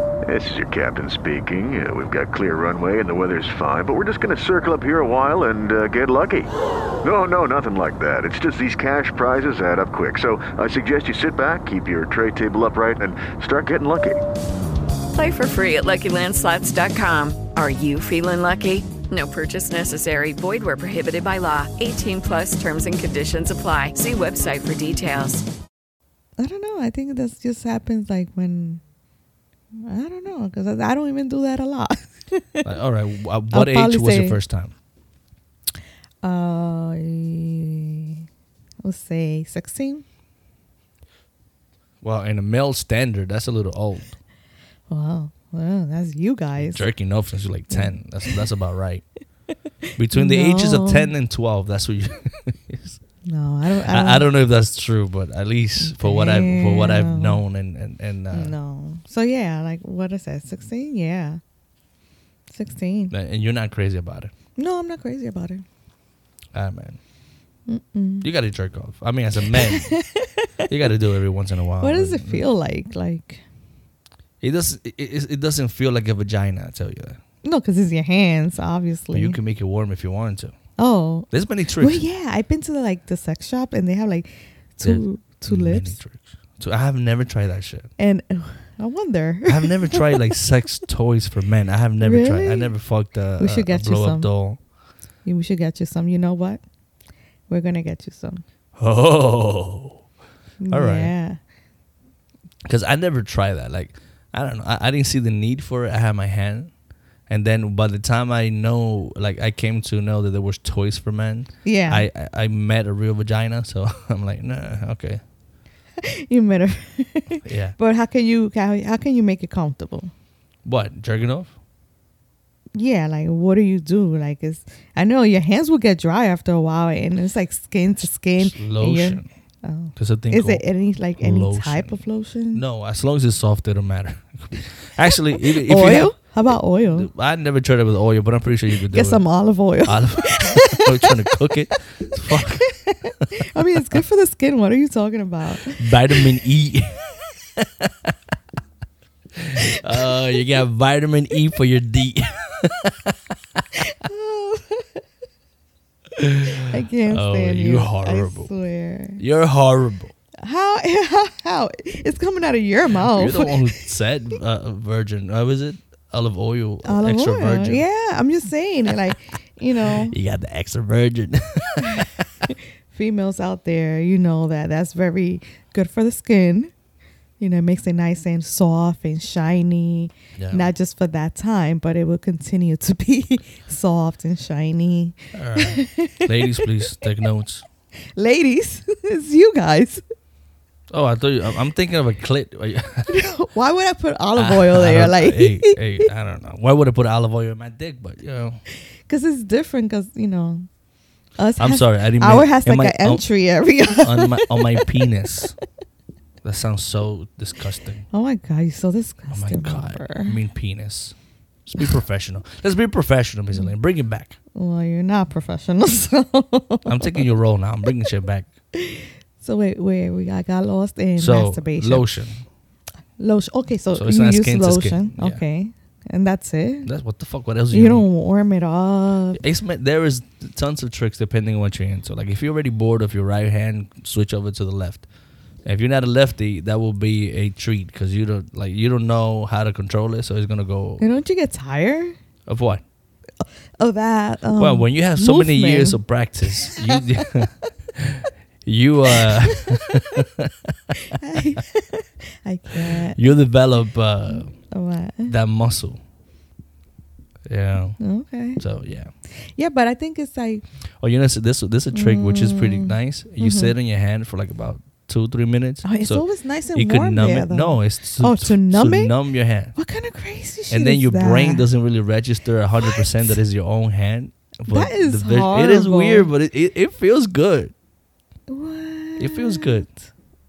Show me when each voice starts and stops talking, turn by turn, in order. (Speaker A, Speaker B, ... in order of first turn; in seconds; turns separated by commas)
Speaker A: 0.3-6.5, Speaker A: 7.0-14.2, Speaker B: 15.1-25.4, Speaker C: 26.4-28.8, Speaker C: 29.8-32.7, Speaker D: 32.6-34.7, Speaker C: 33.5-34.4, Speaker C: 36.2-38.2, Speaker C: 38.8-40.0, Speaker D: 42.0-44.2, Speaker C: 44.9-46.9, Speaker D: 46.6-49.1, Speaker C: 47.7-48.4, Speaker D: 50.0-53.0, Speaker C: 50.1-51.1, Speaker C: 53.2-54.3, Speaker D: 53.9-58.5, Speaker C: 55.8-57.4, Speaker C: 58.3-61.4, Speaker C: 62.5-63.1, Speaker D: 63.1-64.3, Speaker C: 64.6-65.6, Speaker D: 66.5-67.0, Speaker C: 67.7-68.3, Speaker D: 68.2-69.9, Speaker C: 69.6-70.6, Speaker D: 70.7-72.5, Speaker C: 71.8-73.4, Speaker D: 74.4-77.2, Speaker C: 77.4-79.4, Speaker D: 79.1-80.5, Speaker C: 80.8-86.0, Speaker D: 81.3-82.0, Speaker D: 84.8-87.9, Speaker C: 88.0-90.3, Speaker D: 89.5-94.6, Speaker C: 92.0-92.8, Speaker C: 93.4-94.3, Speaker C: 95.2-96.6, Speaker C: 97.5-98.4, Speaker D: 98.8-100.0, Speaker C: 100.6-101.4, Speaker D: 100.7-101.1, Speaker D: 102.7-106.7, Speaker D: 107.3-115.2, Speaker C: 111.7-112.1, Speaker C: 116.0-120.1, Speaker D: 117.4-117.8, Speaker D: 120.7-121.5, Speaker C: 122.8-132.6, Speaker D: 128.4-129.3, Speaker D: 130.0-130.7, Speaker D: 131.2-136.2, Speaker C: 135.6-137.1, Speaker D: 136.9-139.3, Speaker C: 138.9-141.3, Speaker D: 139.8-142.8, Speaker C: 142.4-146.2, Speaker D: 145.8-147.0, Speaker D: 147.6-148.1, Speaker D: 149.4-153.6, Speaker C: 153.8-155.0, Speaker D: 156.2-158.5, Speaker C: 156.7-159.2, Speaker D: 159.2-160.1, Speaker C: 160.4-163.6, Speaker D: 163.0-167.8, Speaker C: 166.8-170.2, Speaker D: 169.9-172.2, Speaker C: 171.9-176.7, Speaker C: 177.4-186.7, Speaker D: 180.4-180.7, Speaker D: 185.3-187.6, Speaker C: 188.2-190.0, Speaker D: 190.9-193.1, Speaker C: 193.1-196.1, Speaker D: 194.4-198.6, Speaker C: 199.1-200.7, Speaker C: 201.4-205.0, Speaker D: 201.6-203.3, Speaker D: 204.0-205.6, Speaker D: 206.4-208.1, Speaker C: 208.1-210.4, Speaker D: 209.3-214.4, Speaker C: 214.6-217.3, Speaker D: 216.9-218.5, Speaker C: 218.8-222.1, Speaker D: 221.2-222.4, Speaker C: 223.2-226.9, Speaker D: 223.9-225.4, Speaker D: 226.8-228.1, Speaker C: 227.7-229.4, Speaker D: 229.3-235.1, Speaker D: 235.7-241.0, Speaker C: 241.0-242.2, Speaker D: 242.5-242.8, Speaker C: 243.4-246.0, Speaker D: 244.6-250.7, Speaker C: 246.6-247.0, Speaker C: 249.1-250.0, Speaker C: 251.1-253.2, Speaker D: 252.9-254.6, Speaker C: 254.3-255.3, Speaker D: 255.3-256.0, Speaker D: 257.5-258.0, Speaker C: 258.0-258.6, Speaker D: 258.6-259.1, Speaker C: 259.4-260.6, Speaker D: 261.0-269.8, Speaker C: 261.9-263.7, Speaker C: 265.8-269.1, Speaker C: 269.8-271.7, Speaker D: 270.7-277.7, Speaker C: 272.8-273.4, Speaker C: 274.7-276.3, Speaker C: 278.5-280.1, Speaker D: 279.2-279.9